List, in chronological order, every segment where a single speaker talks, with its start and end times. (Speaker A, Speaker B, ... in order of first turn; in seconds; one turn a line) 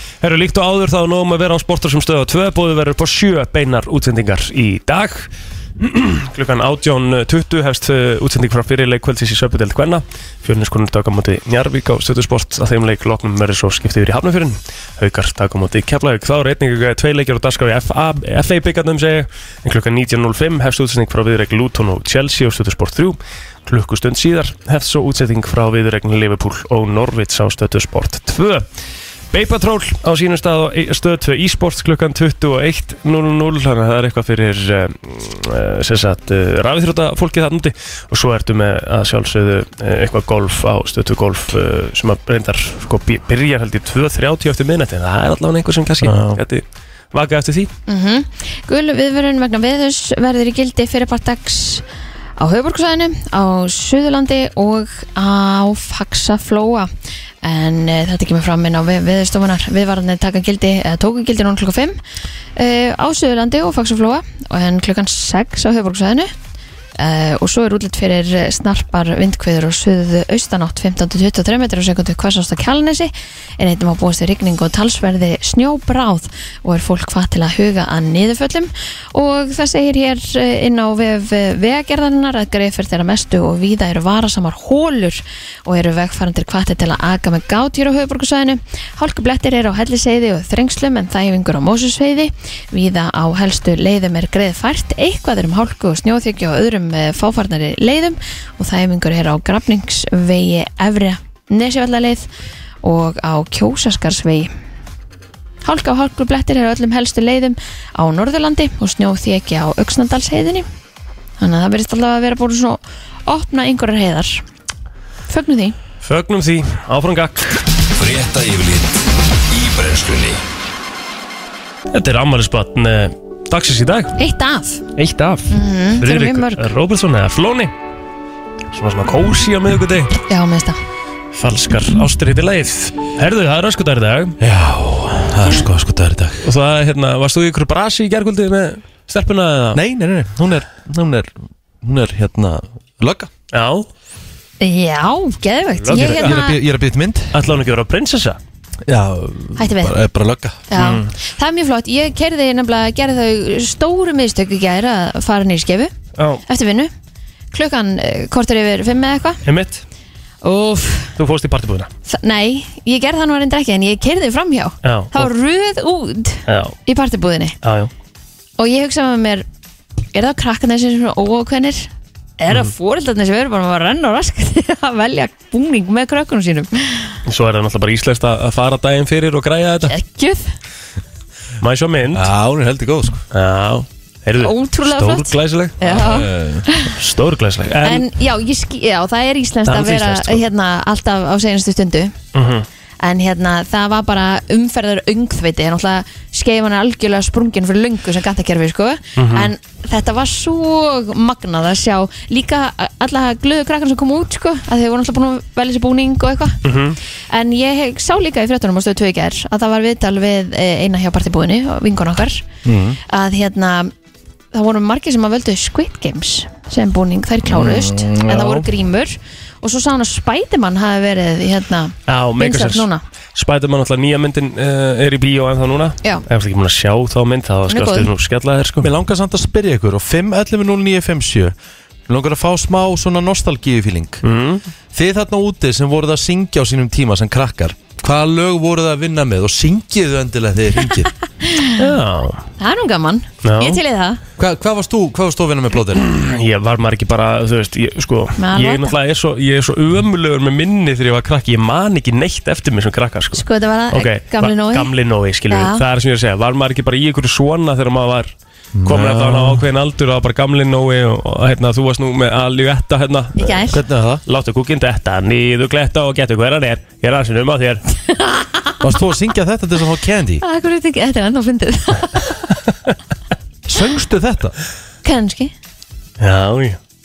Speaker A: 0.2-28.6
Speaker A: 29.3-47.7
Speaker B: 46.0-46.4
Speaker C: 47.9-51.8
Speaker C: 52.4-56.9
Speaker C: 57.4-62.0
Speaker C: 62.5-66.3
Speaker C: 67.0-102.3
Speaker C: 102.8-104.5
Speaker C: 105.6-110.7
Speaker C: 111.4-114.4
Speaker C: 115.3-115.8
Speaker A: 116.0-117.6
Speaker D: 118.0-120.4
Speaker A: 121.9-124.2
Speaker C: 124.2-124.8
Speaker A: 125.0-127.7
Speaker C: 125.5-126.6
Speaker A: 128.7-130.2
Speaker C: 130.3-130.8
Speaker A: 131.3-134.3
Speaker B: 134.4-136.5
Speaker A: 136.4-139.8
Speaker B: 139.7-143.3
Speaker A: 143.5-143.9
Speaker C: 144.6-146.6
Speaker A: 145.8-146.4
Speaker B: 145.9-147.4
Speaker A: 147.3-148.4
Speaker B: 148.8-150.7
Speaker C: 149.6-149.9
Speaker C: 150.7-155.9
Speaker A: 150.8-151.1
Speaker A: 156.2-156.4
Speaker C: 156.5-156.9
Speaker C: 157.5-159.4
Speaker A: 159.4-159.8
Speaker C: 160.4-161.1
Speaker A: 161.2-161.9
Speaker C: 162.1-167.5
Speaker A: 164.8-165.3
Speaker A: 166.5-166.8
Speaker A: 167.6-167.9
Speaker C: 168.6-169.4
Speaker C: 170.1-177.2
Speaker A: 177.2-179.9
Speaker C: 179.9-180.5
Speaker A: 181.6-182.3
Speaker B: 182.1-183.2
Speaker A: 183.3-186.0
Speaker C: 184.3-186.9
Speaker B: 185.8-186.7
Speaker A: 186.9-188.1
Speaker C: 187.8-192.1
Speaker A: 189.7-190.4
Speaker A: 192.3-192.7
Speaker C: 193.0-206.6
Speaker A: 199.2-199.5
Speaker A: 206.6-207.0
Speaker C: 207.3-212.4
Speaker B: 212.6-213.0
Speaker C: 213.1-213.9
Speaker C: 214.5-223.0
Speaker B: 217.4-218.7
Speaker A: 222.1-228.9
Speaker C: 227.7-228.1
Speaker B: 228.8-231.5
Speaker B: 232.1-234.2
Speaker A: 234.2-234.6
Speaker B: 234.9-241.1
Speaker C: 241.4-241.8
Speaker A: 241.8-242.4
Speaker C: 242.6-244.2
Speaker A: 243.4-243.8
Speaker B: 244.4-246.0
Speaker A: 245.9-258.3
Speaker C: 248.4-248.9
Speaker C: 253.3-254.9
Speaker C: 255.5-255.8
Speaker B: 258.7-259.6
Speaker A: 258.8-267.8
Speaker C: 263.4-263.8
Speaker B: 263.7-264.2
Speaker C: 268.1-268.7
Speaker B: 268.8-270.4
Speaker C: 270.4-272.4
Speaker B: 273.6-274.5
Speaker C: 275.0-275.5
Speaker A: 276.2-276.8